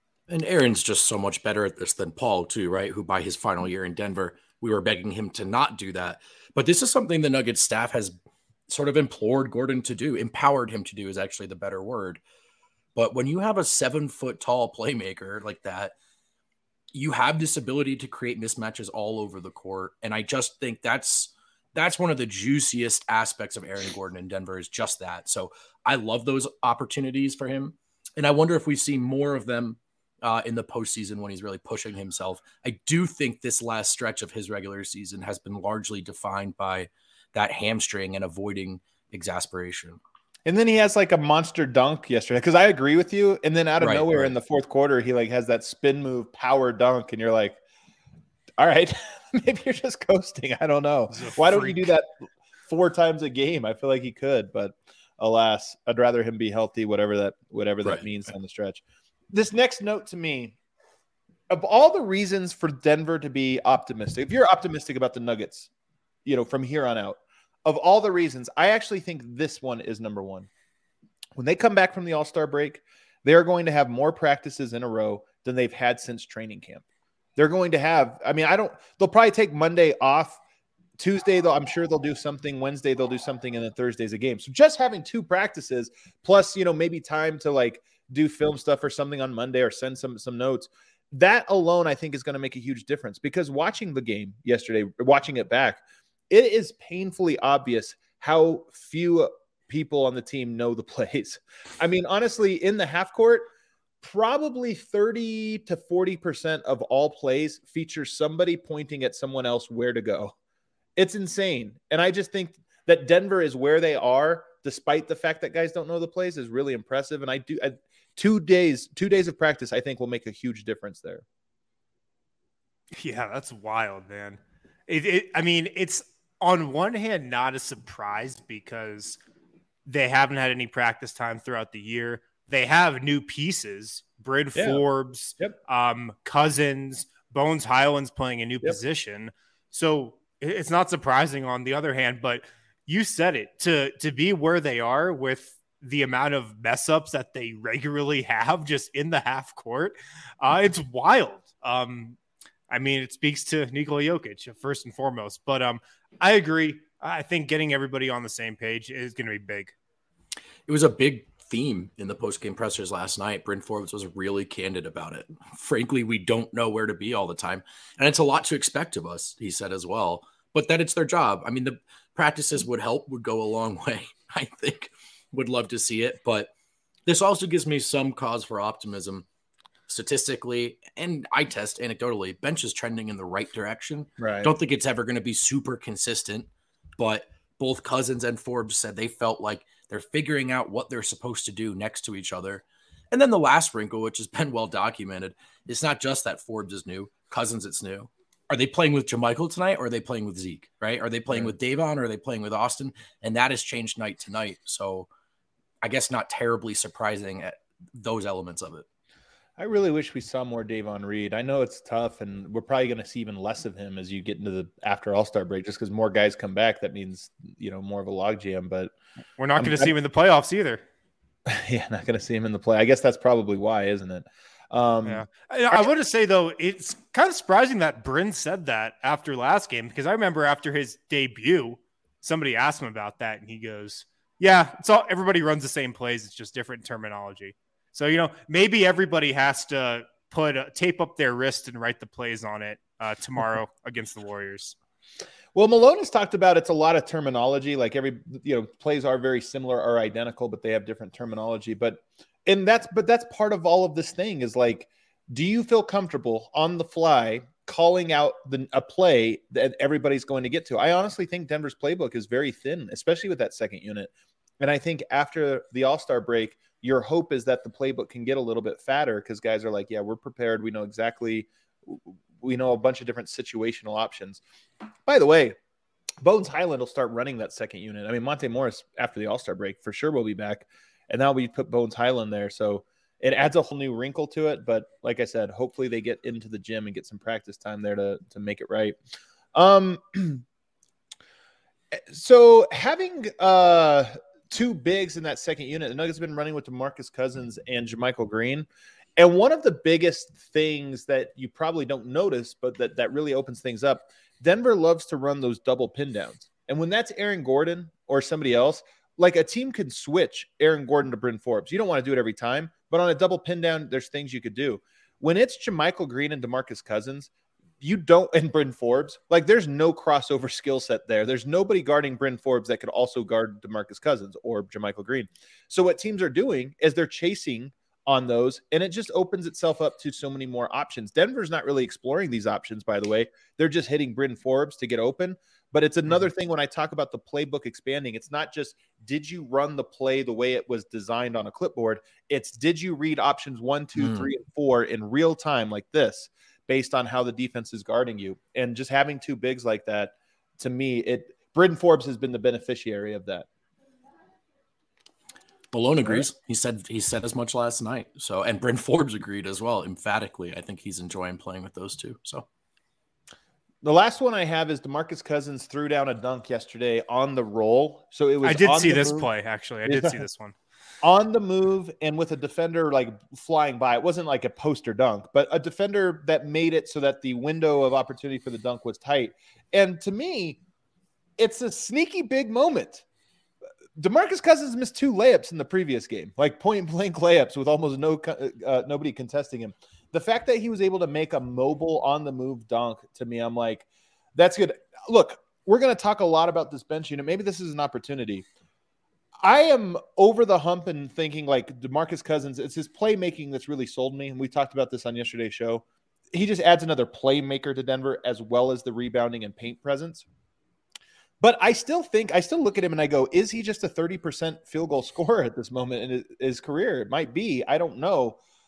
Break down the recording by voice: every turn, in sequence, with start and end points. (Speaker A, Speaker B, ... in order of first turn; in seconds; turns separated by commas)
Speaker A: 0.3-8.2, Speaker A: 8.7-12.2, Speaker A: 12.9-15.9, Speaker A: 16.9-40.0, Speaker B: 40.5-47.6, Speaker A: 43.8-44.4, Speaker B: 48.6-52.1, Speaker C: 51.1-51.8, Speaker B: 52.7-60.5, Speaker B: 61.5-65.7, Speaker B: 66.2-70.5, Speaker B: 71.4-76.8, Speaker B: 77.4-80.4, Speaker B: 81.0-103.5, Speaker B: 104.0-110.3, Speaker B: 111.0-121.2, Speaker C: 123.0-129.2, Speaker C: 129.9-152.2, Speaker B: 134.6-134.8, Speaker C: 152.7-159.8, Speaker A: 160.7-176.5, Speaker A: 177.1-179.2, Speaker A: 179.9-205.1, Speaker B: 184.2-184.5, Speaker B: 201.3-201.5, Speaker A: 205.8-208.9, Speaker B: 209.6-218.9, Speaker C: 219.4-220.8, Speaker B: 219.6-219.9, Speaker B: 221.5-225.9, Speaker C: 225.1-244.8, Speaker B: 245.5-274.4, Speaker B: 275.1-275.6, Speaker B: 276.2-289.0, Speaker B: 289.5-290.4, Speaker B: 291.9-353.5, Speaker A: 344.0-344.3, Speaker A: 355.7-362.5, Speaker B: 363.8-369.3, Speaker C: 368.4-370.6, Speaker B: 369.9-370.2, Speaker B: 371.0-380.6, Speaker B: 381.4-383.0, Speaker B: 384.0-398.5, Speaker B: 399.4-410.2, Speaker B: 411.4-418.4